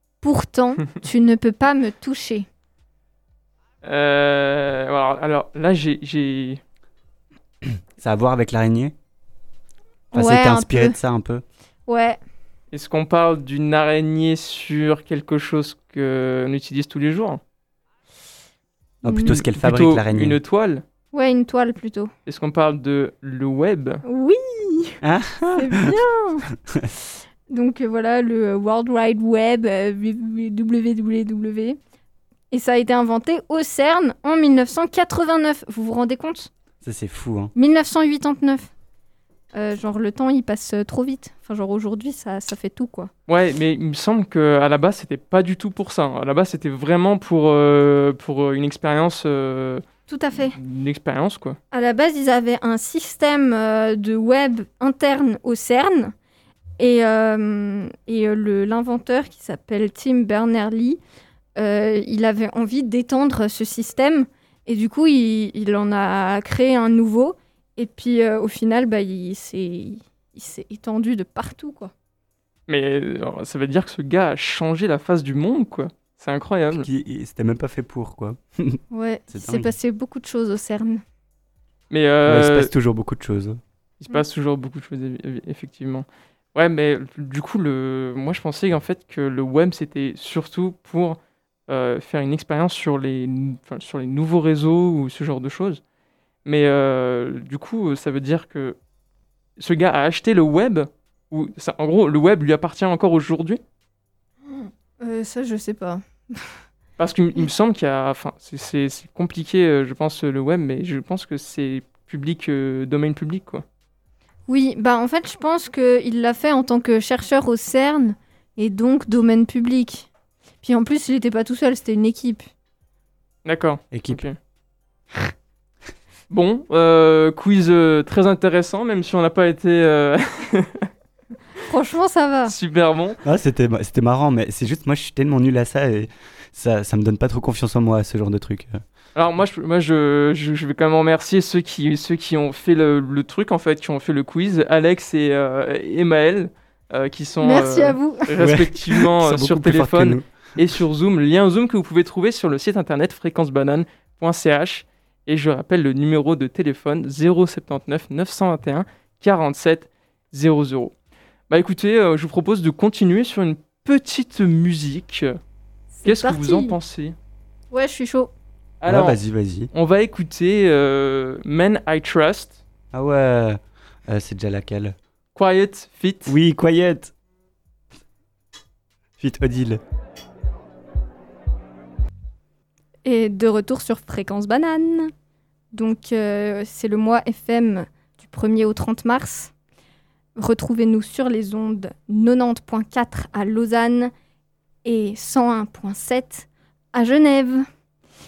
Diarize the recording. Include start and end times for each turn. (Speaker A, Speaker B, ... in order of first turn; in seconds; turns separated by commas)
Speaker A: 0.2-2.5, Speaker B: 3.8-6.6, Speaker C: 7.6-8.9, Speaker A: 10.1-10.9, Speaker C: 10.1-11.4, Speaker A: 11.9-12.2, Speaker B: 12.7-17.4, Speaker C: 19.0-20.4, Speaker A: 19.1-19.4, Speaker B: 19.5-20.8, Speaker A: 21.1-22.1, Speaker B: 22.2-24.0, Speaker A: 24.0-25.0, Speaker C: 25.0-25.9, Speaker A: 25.5-26.5, Speaker A: 27.5-31.8, Speaker A: 32.5-36.5, Speaker C: 36.8-37.5, Speaker A: 37.5-38.7, Speaker A: 39.5-43.1, Speaker B: 43.3-49.8, Speaker A: 50.1-50.5, Speaker B: 50.5-51.6, Speaker A: 51.7-56.1, Speaker A: 56.8-61.0, Speaker A: 61.5-71.9, Speaker B: 72.7-76.9, Speaker C: 76.7-79.7, Speaker A: 78.9-81.0, Speaker B: 81.9-82.7, Speaker C: 82.2-83.6, Speaker B: 84.0-95.8, Speaker B: 96.4-98.8, Speaker B: 99.6-103.6, Speaker A: 104.5-106.5, Speaker B: 107.0-113.6, Speaker A: 114.5-120.1, Speaker A: 120.6-122.5, Speaker B: 123.5-124.3, Speaker C: 123.9-124.2, Speaker B: 126.3-130.9, Speaker A: 131.7-132.5, Speaker B: 132.5-133.2, Speaker C: 133.2-138.8, Speaker B: 139.1-160.9, Speaker A: 147.4-148.3, Speaker C: 148.4-150.2, Speaker B: 161.5-165.4, Speaker A: 165.9-166.8, Speaker B: 166.0-167.2, Speaker A: 167.7-168.3, Speaker B: 168.8-169.2, Speaker C: 168.9-169.7, Speaker B: 169.7-172.6, Speaker C: 172.9-174.9, Speaker B: 175.3-176.3, Speaker C: 176.2-177.1, Speaker C: 179.2-179.8, Speaker A: 183.0-185.1, Speaker A: 185.7-189.5, Speaker A: 190.3-194.1, Speaker A: 194.8-197.7